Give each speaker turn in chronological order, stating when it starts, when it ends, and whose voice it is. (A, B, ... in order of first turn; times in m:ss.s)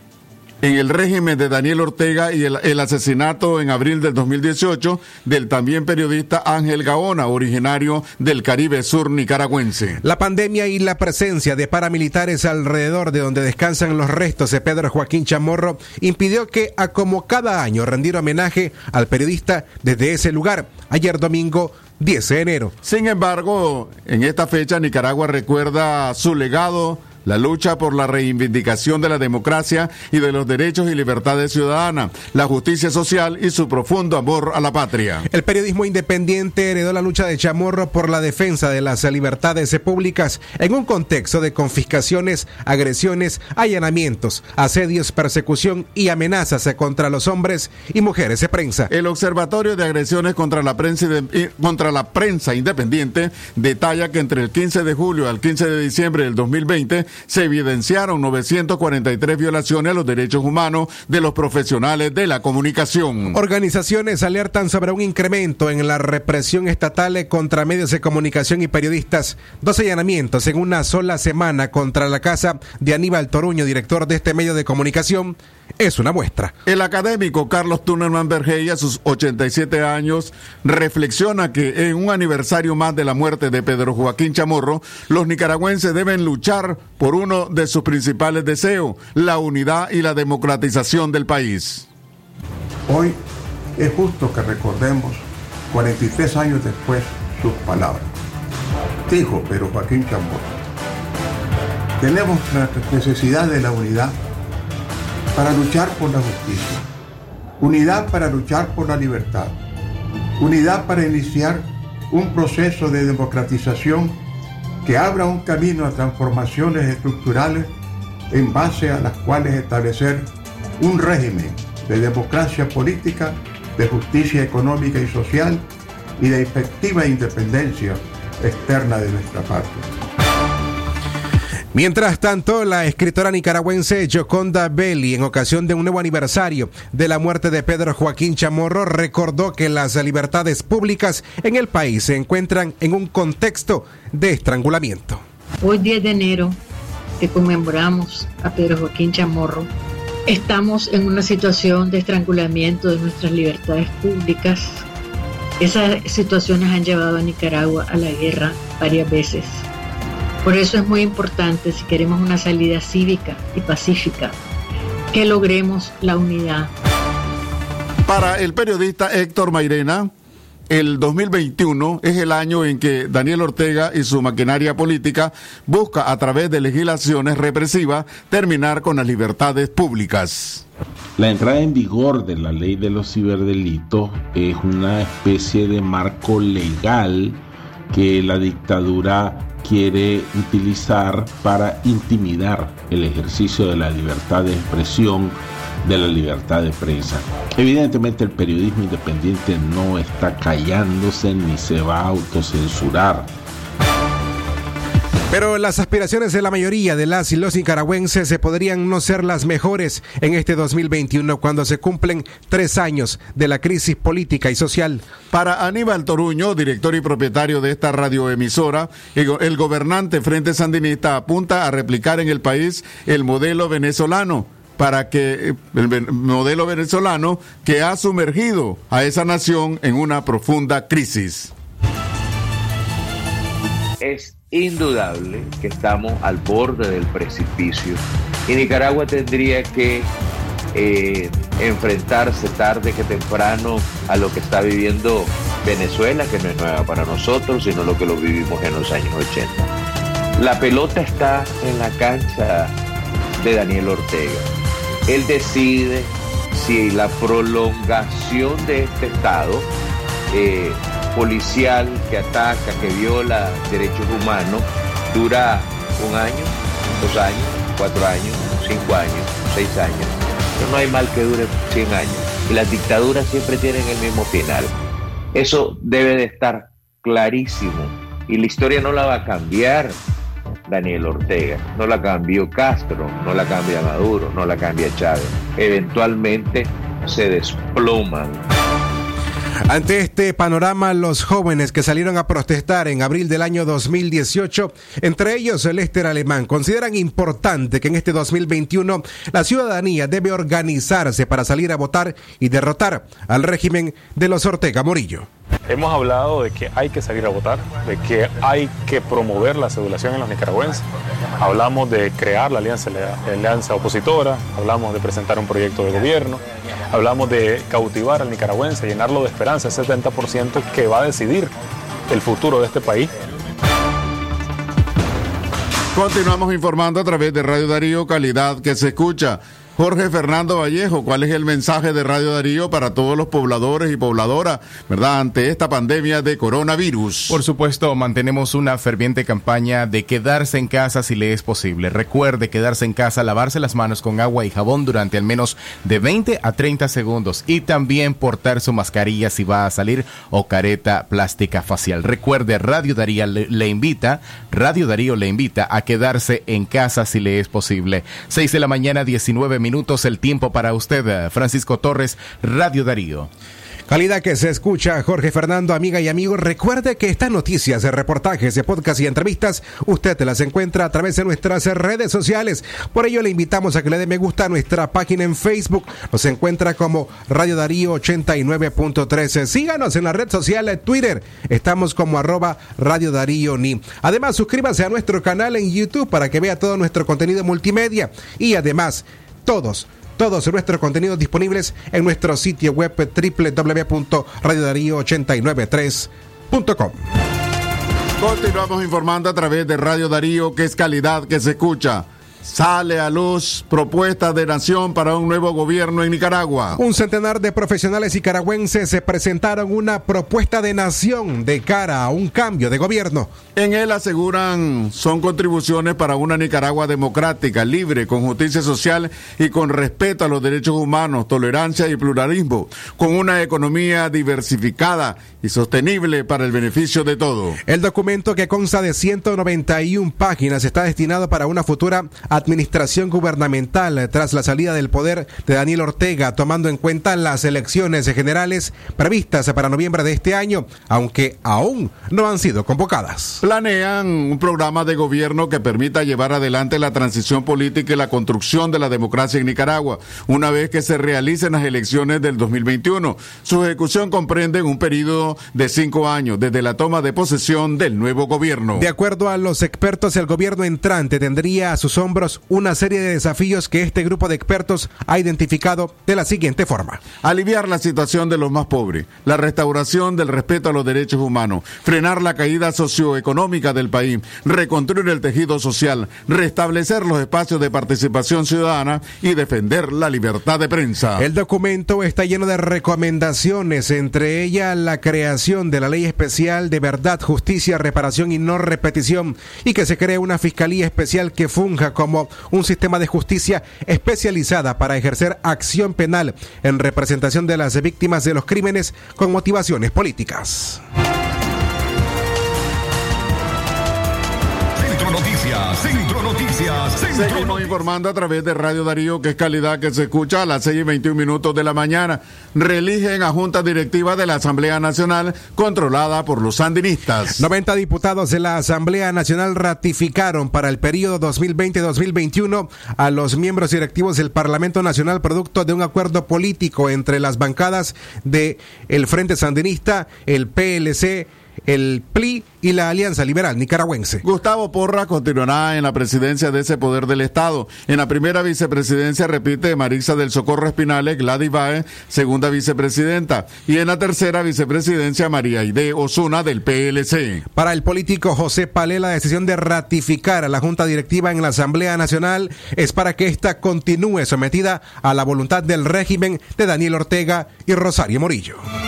0:00.6-0:10.0 A
0:10.0-0:22.7 B
0:22.8-0:35.3 A
0:35.3-0:48.9 B
0:48.9-1:03.4 A
1:03.3-1:16.5 B
1:16.6-1:31.9 A
1:32.9-1:33.2 C
1:33.8-1:38.1 C
1:39.1-1:40.5 C
1:42.0-1:44.2 C
1:45.3-1:46.8 C
1:47.6-1:49.6 C
1:50.4-1:54.2 C
1:54.8-1:57.7 C
1:58.3-2:00.3 C
2:00.8-2:05.6 C
2:06.2-2:09.8 C
2:11.7-2:25.2 B
2:25.6-2:26.6 D
2:27.2-2:29.7 D
2:30.3-2:34.8 D
2:35.6-2:39.6 D
2:40.4-2:44.4 D
2:45.1-2:46.7 D
2:48.0-2:50.1 A
2:50.7-3:00.6 A
3:01.2-3:07.4 E
3:07.9-3:23.3 E
3:25.3-3:35.0 B
3:35.3-3:51.5 A
3:54.0-4:00.1 F
4:00.7-4:09.7 F
4:10.4-4:12.7 F
4:13.4-4:14.4 F
4:15.1-4:19.7 F
4:20.3-4:34.7 F
4:35.3-4:40.0 F
4:40.7-4:48.4 F
4:49.7-5:05.3 B
5:05.7-5:10.8 G
5:11.4-5:21.5 G
5:22.1-5:23.1 G
5:25.9-5:37.4 A
5:37.3-6:03.3 H
6:03.9-6:37.0 B
6:38.2-6:46.8 A
6:46.8-6:53.3 B
6:53.5-7:07.6 A
7:07.7-7:23.4 B
7:23.4-7:38.9 A
7:38.8-7:47.0 B
7:47.2-8:01.2 A
8:01.2-8:20.8 B
8:24.8-8:27.6 I
8:27.1-8:37.4 A
8:37.4-8:54.2 B
8:54.2-9:07.4 A
9:07.5-9:18.6 B